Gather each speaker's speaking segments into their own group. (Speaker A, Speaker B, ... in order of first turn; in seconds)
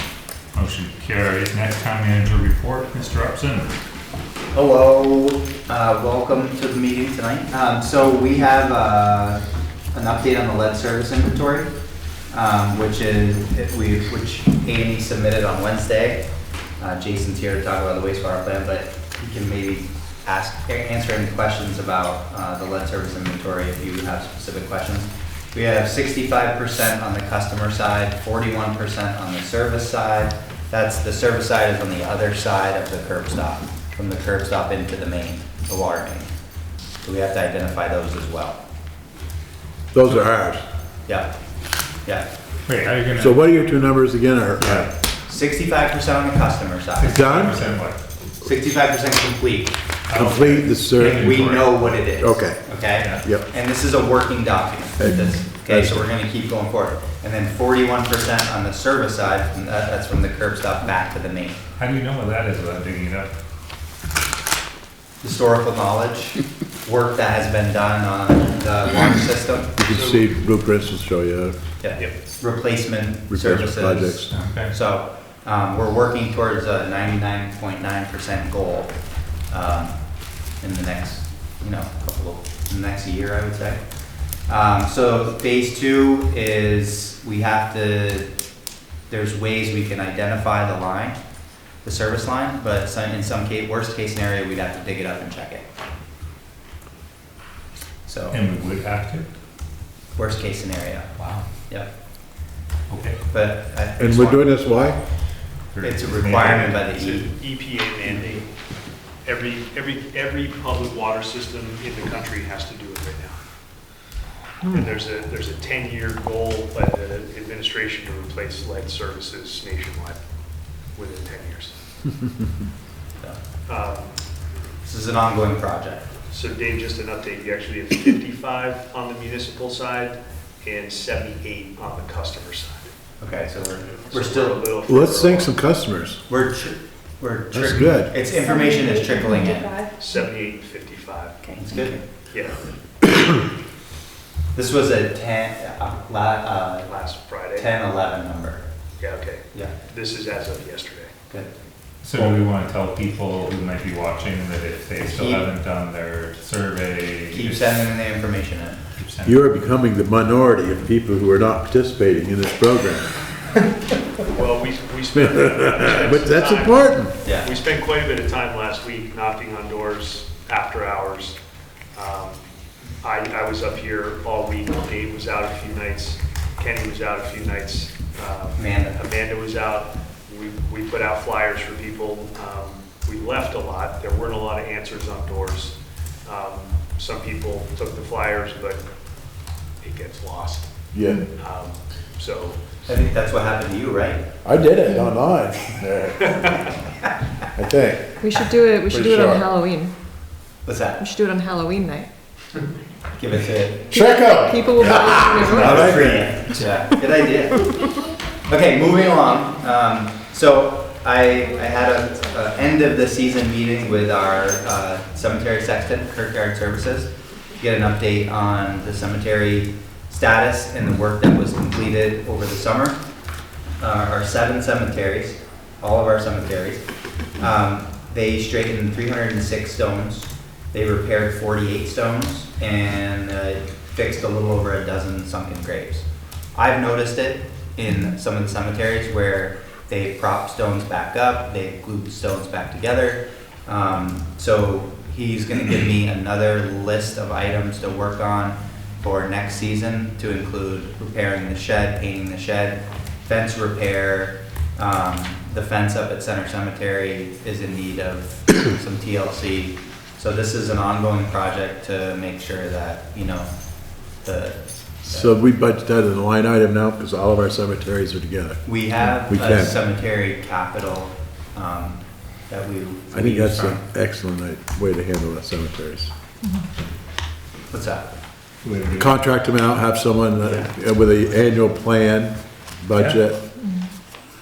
Speaker A: 0.5-3.7, 42.7-43.4, 44.6-44.9, 47.0-48.0, 50.1-51.9, 53.0-53.2, 61.8-63.3, 74.3-74.7, 98.3-99.3, 102.9-103.2, 105.8-106.7, 152.0-157.6, 159.0-159.5, 278.6-279.2, 282.9-283.3
Speaker B: 4.5-11.7, 12.3-16.2, 16.8-36.3, 37.0-38.6, 41.1-41.3, 45.3-47.3, 48.4-49.8, 51.0-61.6, 65.2-69.7, 71.8-83.8, 84.5-88.3, 89.1-91.2, 91.8-95.7, 98.1-98.4, 100.2-101.9, 103.3-104.6, 105.8-107.3, 124.8-126.1, 133.2-134.6, 136.3-139.8, 141.6-142.0, 144.6-146.9, 147.6-148.7, 155.1-155.5, 157.3-158.8, 167.2-167.5, 178.6-179.0, 192.9-194.3, 200.7-201.0, 203.2-204.0, 205.5-207.8, 208.5-223.0, 223.8-226.8, 227.4-263.5, 264.2-265.4, 268.6-273.8, 277.7-278.1, 280.4-280.7
Speaker C: 39.9-40.6, 43.2-44.9, 47.1-47.6, 50.1-51.6, 52.1-53.5, 55.0-56.1, 69.8-71.6, 73.3-74.3, 104.0-105.0, 134.8-136.2, 137.5-138.1, 159.2-163.1, 165.1-167.2, 190.9-191.3, 194.4-196.7, 197.6-199.5, 203.9-206.5, 265.1-268.7, 269.2-269.8, 273.1-276.1, 279.0-283.4
Speaker D: 55.1-55.4, 138.4-140.0, 141.4-141.9, 198.2-199.9, 201.0-202.1, 203.9-206.1
Speaker E: 69.9-70.3, 106.3-108.5, 109.2-113.4, 114.7-120.2, 121.0-121.8, 123.7-124.2, 126.3-132.9, 133.9-135.6, 140.0-141.5, 142.3-142.7, 146.9-147.7, 149.0-151.1, 164.3-171.4, 171.9-172.4, 173.0-188.8, 189.8-190.7, 191.3-192.6